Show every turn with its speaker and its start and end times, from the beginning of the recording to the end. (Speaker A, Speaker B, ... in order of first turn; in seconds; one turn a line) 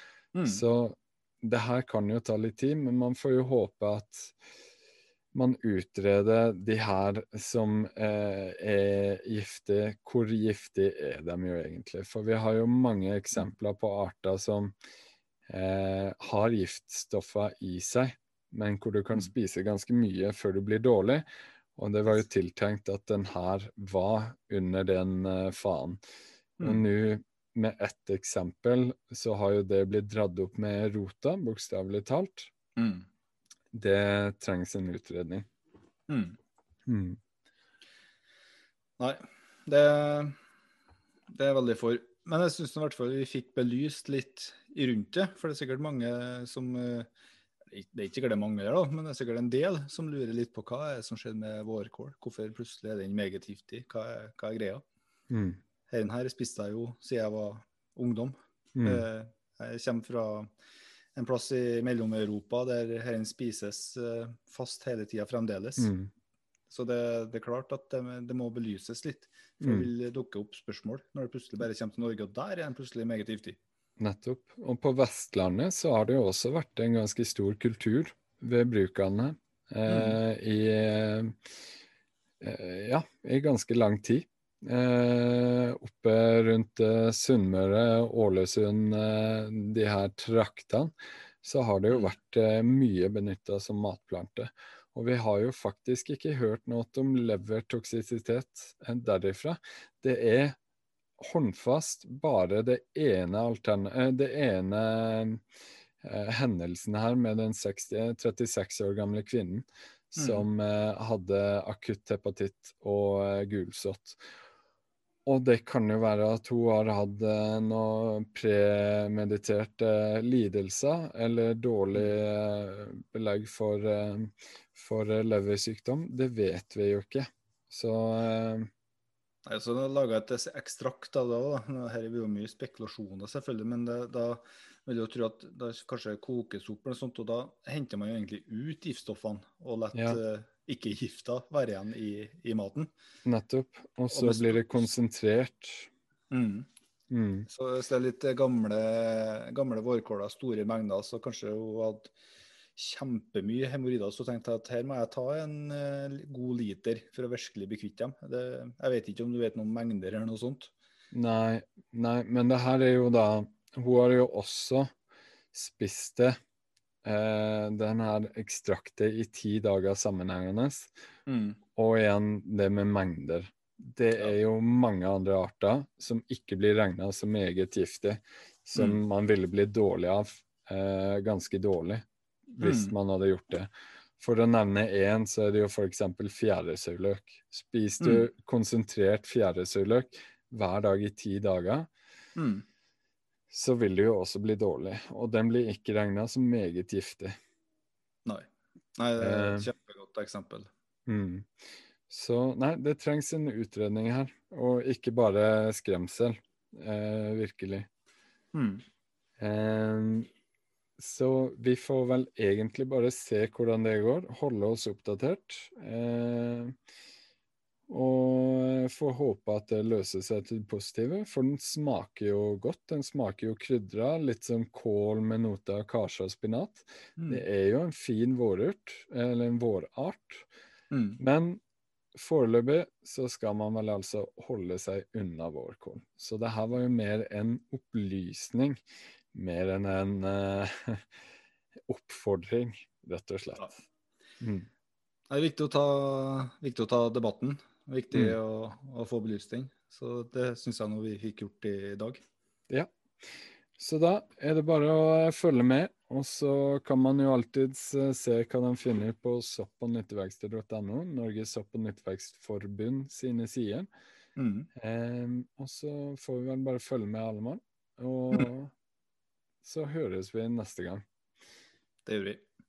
Speaker A: 0.3-0.6
Speaker B: 0.5-4.4
Speaker B: 5.3-14.7
Speaker B: 15.5-21.2
Speaker B: 21.8-26.0
Speaker A: 26.6-26.9
Speaker B: 26.6-32.5
Speaker A: 32.8-33.1
Speaker B: 33.7-35.5
Speaker A: 36.1-36.4
Speaker B: 36.9-37.2
Speaker A: 39.0-40.4
Speaker A: 41.3-47.1
Speaker A: 47.7-54.8
Speaker B: 55.3-55.6
Speaker A: 55.9-60.5
Speaker B: 58.8-59.0
Speaker A: 61.2-65.9
Speaker B: 65.8-66.1
Speaker A: 66.7-73.6
Speaker B: 69.6-69.9
Speaker B: 74.0-81.4
Speaker A: 79.9-80.2
Speaker B: 82.4-90.9
Speaker B: 91.4-100.6
Speaker B: 101.2-105.4
Speaker B: 106.0-114.2
Speaker A: 110.2-110.5
Speaker B: 115.3-128.7
Speaker A: 129.5-142.9
Speaker B: 139.9-140.2
Speaker B: 143.2-145.9
Speaker A: 144.1-144.8
Speaker A: 146.3-146.7
Speaker B: 147.1-147.5
Speaker A: 147.5-152.1
Speaker A: 152.8-160.7
Speaker B: 161.1-164.9
Speaker B: 165.5-166.4
Speaker B: 167.0-170.9
Speaker A: 171.3-171.6
Speaker B: 171.8-191.9
Speaker A: 182.6-182.9
Speaker A: 188.0-188.3
Speaker A: 192.4-192.6
Speaker B: 193.5-197.4
Speaker A: 198.3-200.7
Speaker B: 199.2-199.7
Speaker B: 201.1-201.5
Speaker B: 202.1-207.9
Speaker A: 208.5-208.8
Speaker B: 209.4-210.3
Speaker B: 211.0-216.7
Speaker B: 217.9-230.5
Speaker A: 227.2-227.4
Speaker A: 230.9-231.2
Speaker B: 231.2-231.6
Speaker B: 232.2-238.8
Speaker B: 239.3-241.1
Speaker B: 241.9-243.8
Speaker B: 244.4-244.7
Speaker A: 245.3-252.2
Speaker B: 253.8-263.9
Speaker A: 264.4-264.7
Speaker B: 264.8-268.7
Speaker B: 269.6-271.1
Speaker A: 272.1-272.4